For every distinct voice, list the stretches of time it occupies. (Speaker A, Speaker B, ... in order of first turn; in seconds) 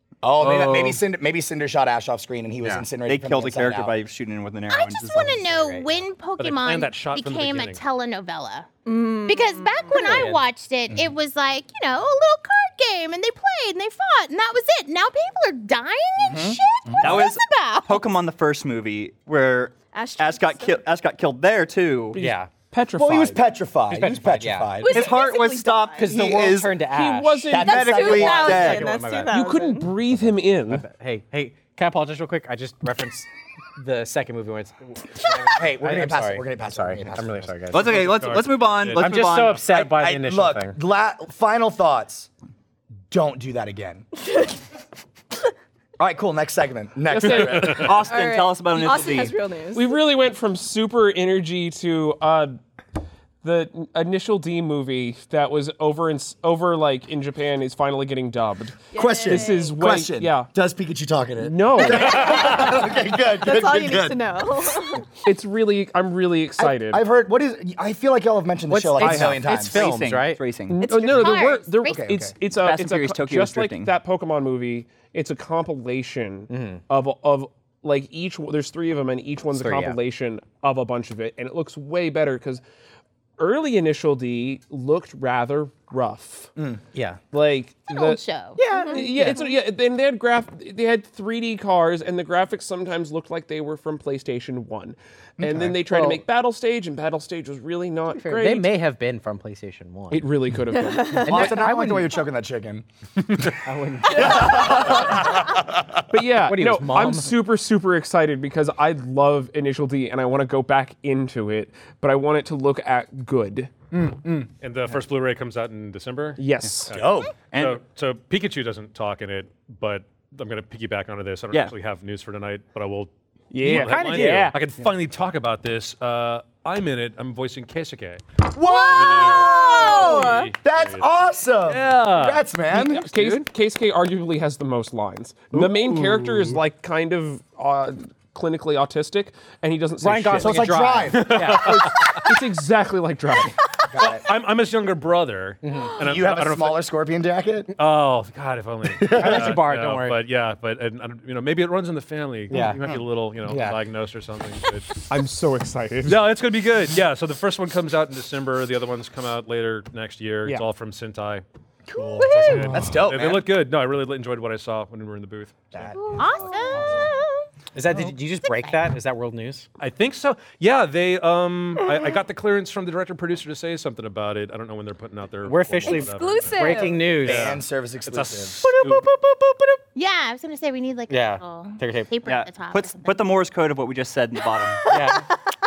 Speaker A: 0.2-3.9, 16.2-16.6, 22.9-25.1, 27.5-28.5, 35.5-37.6, 39.7-42.3, 43.1-44.0, 46.0-48.0, 58.9-64.2, 66.6-69.8, 71.9-72.3, 95.4-95.8, 101.2-102.8, 104.1-105.8, 116.9-117.3, 128.5-133.0, 135.5-136.5, 140.4-142.2, 143.9-144.2, 146.0-147.7, 148.9-149.6, 161.9-163.4, 177.2-178.6
Speaker B: 0.4-0.7, 5.4-6.0, 9.9-10.4, 22.2-22.5, 23.9-24.7, 26.0-27.5, 28.2-29.4, 30.7-38.0, 39.0-40.8, 68.7-70.4, 76.5-76.8, 79.5-80.0, 86.9-87.2, 88.6-89.4, 95.8-96.2, 98.1-100.2, 101.0-102.1, 103.6-105.1, 106.4-107.3, 123.6-124.5, 140.0-141.9, 145.6-145.9, 149.0-150.2, 152.5-153.8, 167.7-169.7, 175.4-177.6, 181.1-182.1, 184.9-185.2
Speaker C: 3.0-5.5, 17.0-22.2, 24.9-26.8, 27.5-28.9, 37.7-39.7, 47.6-49.4, 69.0-70.9, 72.5-73.9, 117.5-117.8, 182.2-184.8
Speaker D: 4.7-18.1, 70.9-72.1, 87.9-88.8, 162.2-162.6, 166.1-167.2, 168.4-168.8, 179.9-183.2
Speaker E: 6.4-7.8, 37.8-39.4, 114.0-128.4, 128.9-131.1, 131.7-132.4, 133.0-133.4, 141.2-142.3, 143.9-146.8, 147.7-155.0, 156.1-161.4, 162.2-167.1, 169.8-179.1
Speaker F: 8.8-10.2, 19.9-20.8, 24.8-26.1, 27.6-29.9, 48.0-50.0, 58.9-59.8, 63.3-65.1, 88.7-89.4, 100.7-101.2, 128.6-130.5, 162.2-162.6, 175.8-177.1
Speaker G: 22.1-23.4, 26.9-28.3, 29.3-30.9, 47.1-47.8, 49.7-52.6, 53.4-60.5, 61.4-62.3, 65.2-67.0, 69.0-69.4, 70.7-82.6, 83.4-86.5, 87.3-88.2, 88.9-98.8, 100.1-101.5, 106.1-113.8, 116.4-117.0, 123.5-124.6, 132.7-140.8, 142.2-143.6, 155.1-156.3